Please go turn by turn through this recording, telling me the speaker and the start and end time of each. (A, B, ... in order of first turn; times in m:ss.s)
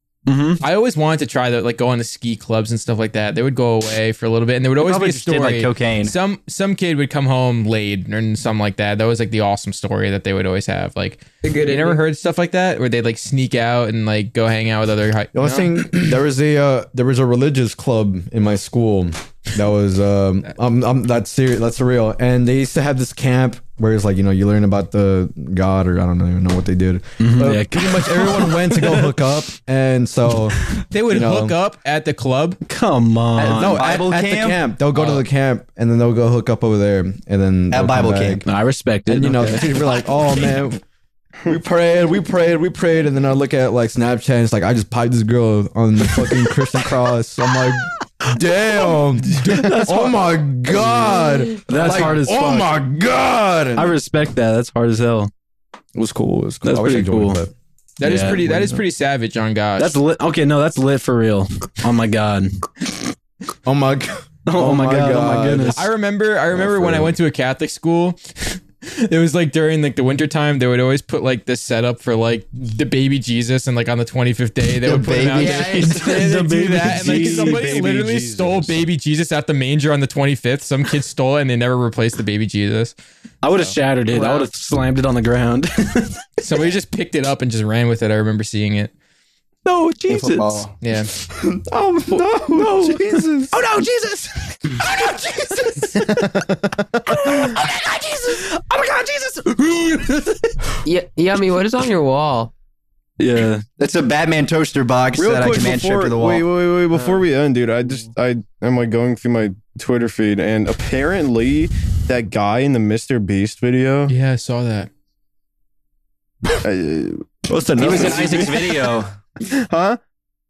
0:00.2-0:00.6 A
0:00.6-0:15.7 B
0:04.8-0:06.2 C
0:11.4-0:12.0 D
0:15.3-0:31.6 E
0:27.2-0:29.1 A
0:30.9-0:32.6 B
0:32.6-0:34.0 A
0:33.3-0:34.6 C
0:33.5-0:38.4 E
0:34.9-0:35.2 A
0:37.7-0:38.4 C
0:38.4-0:39.7 A
0:39.0-0:40.8 E
0:41.4-0:54.0 E
0:49.3-0:50.2 A
0:49.4-0:49.9 B
0:51.6-0:52.8 A
0:53.8-0:55.3 A
0:55.9-0:57.5 E
0:56.6-0:57.4 A
0:58.0-1:00.0 B
0:58.0-0:58.4 A
0:58.4-0:58.8 E
0:59.8-1:02.5 A
1:03.6-1:05.9 E
1:04.4-1:05.8 A
1:05.7-1:22.9 B
1:06.5-1:07.2 E
1:14.8-1:16.8 C
1:15.4-1:16.2 D
1:16.2-1:17.6 A
1:16.8-1:18.8 F
1:23.4-1:26.3 A
1:24.1-1:24.5 D
1:26.4-1:28.9 B
1:29.6-1:30.6 A
1:30.1-1:30.7 C
1:30.8-1:31.1 B
1:31.5-1:33.5 E
1:32.1-1:35.8 A
1:37.1-1:40.5 A
1:40.8-1:42.5 D
1:43.2-1:43.6 A
1:43.8-1:46.4 C
1:45.2-1:54.1 F
1:54.1-1:54.9 B
1:56.6-1:59.0 F
1:57.5-1:58.6 E
1:57.8-1:59.1 C
1:59.5-2:00.0 F